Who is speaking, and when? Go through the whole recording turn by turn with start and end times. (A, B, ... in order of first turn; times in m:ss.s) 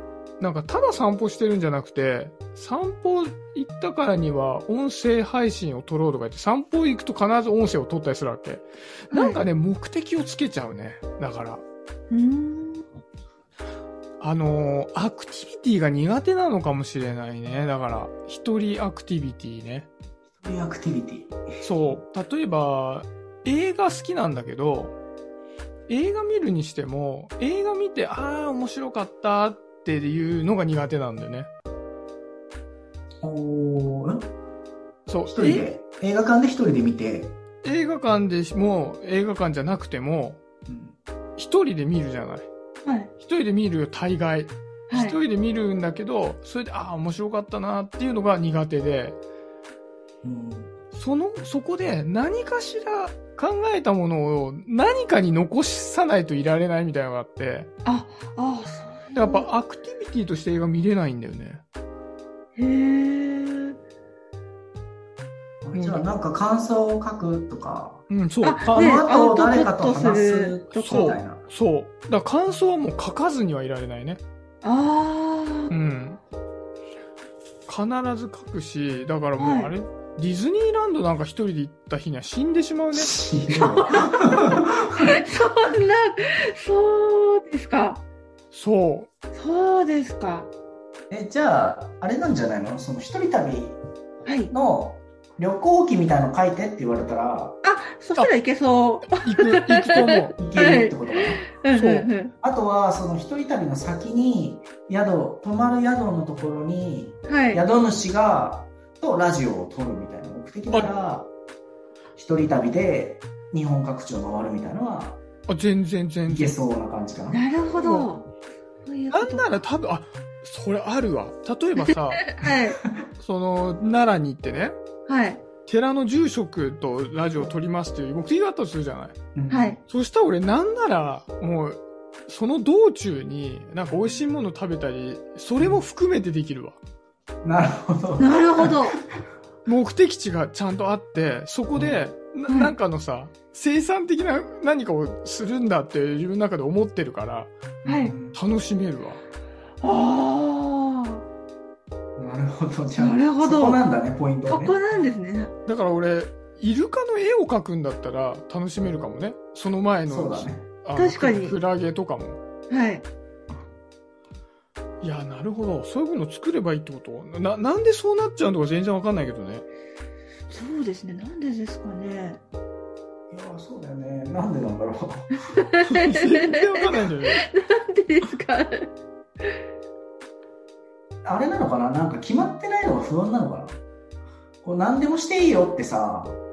0:00.4-0:11.6 A
0:09.1-0:09.4 B
0:12.1-0:12.9 B
0:14.2-0:19.9 A
0:20.4-0:21.3 C
0:21.6-0:25.0 A
0:25.9-0:31.5 A
0:33.2-0:34.3 C
0:35.1-0:35.7 A
0:35.3-0:37.3 C
0:37.6-0:40.4 A
0:40.7-0:41.0 C
0:41.4-0:42.5 A
0:42.8-0:43.1 B
0:43.2-0:49.2 A
0:44.9-0:45.2 B
0:50.2-0:50.7 C
0:50.9-0:57.7 A
0:57.8-0:59.5 B
0:59.1-1:01.6 A
1:02.6-1:03.8 B
1:05.6-1:08.0 C
1:05.7-1:06.0 A
1:08.1-1:09.0 A
1:08.4-1:11.2 B
1:08.7-1:11.4 C
1:10.8-1:14.2 A
1:14.6-1:15.7 B
1:15.7-1:16.2 A
1:17.7-1:23.2 A
1:19.4-1:19.7 B
1:23.0-1:25.1 C
1:23.5-1:24.1 B
1:25.0-1:28.0 B
1:28.5-1:29.1 A
1:29.3-1:30.5 B
1:31.1-1:33.8 C
1:34.2-1:34.5 B
1:34.5-1:37.6 C
1:37.6-1:42.3 B
1:39.0-1:40.4 A
1:40.4-1:41.4 C
1:41.7-1:42.1 A
1:42.4-1:51.3 C
1:47.3-1:47.6 B
1:52.2-1:55.2 C
1:55.5-1:56.6 A
1:56.3-1:57.4 C
1:57.3-1:58.3 B
1:57.8-1:58.1 A
1:58.8-1:59.5 B
1:59.1-2:02.3 A
2:02.2-2:02.8 B
2:02.4-2:03.0 C
2:03.2-2:04.8 A
2:05.1-2:05.4 B
2:05.6-2:09.2 A
2:09.3-2:09.8 C
2:09.5-2:09.8 B
2:09.9-2:16.8 A
2:17.4-2:19.0 C
2:18.2-2:19.0 B
2:19.6-2:27.5 A
2:21.7-2:22.1 C
2:27.8-2:28.4 C
2:27.8-2:28.1 B
2:28.3-2:29.2 A
2:29.8-2:31.2 B
2:32.2-2:34.8 C
2:32.9-2:33.8 B
2:34.5-2:35.5 B
2:35.6-2:42.4 A
2:40.1-2:40.6 C
2:41.0-2:41.6 B
2:42.7-2:43.0 B
2:45.0-2:49.6 A
2:50.5-2:52.4 B
2:53.3-2:55.3 C
2:55.5-2:58.9 B
2:55.8-2:57.4 A
3:01.2-3:03.8 C
3:04.6-3:06.4 C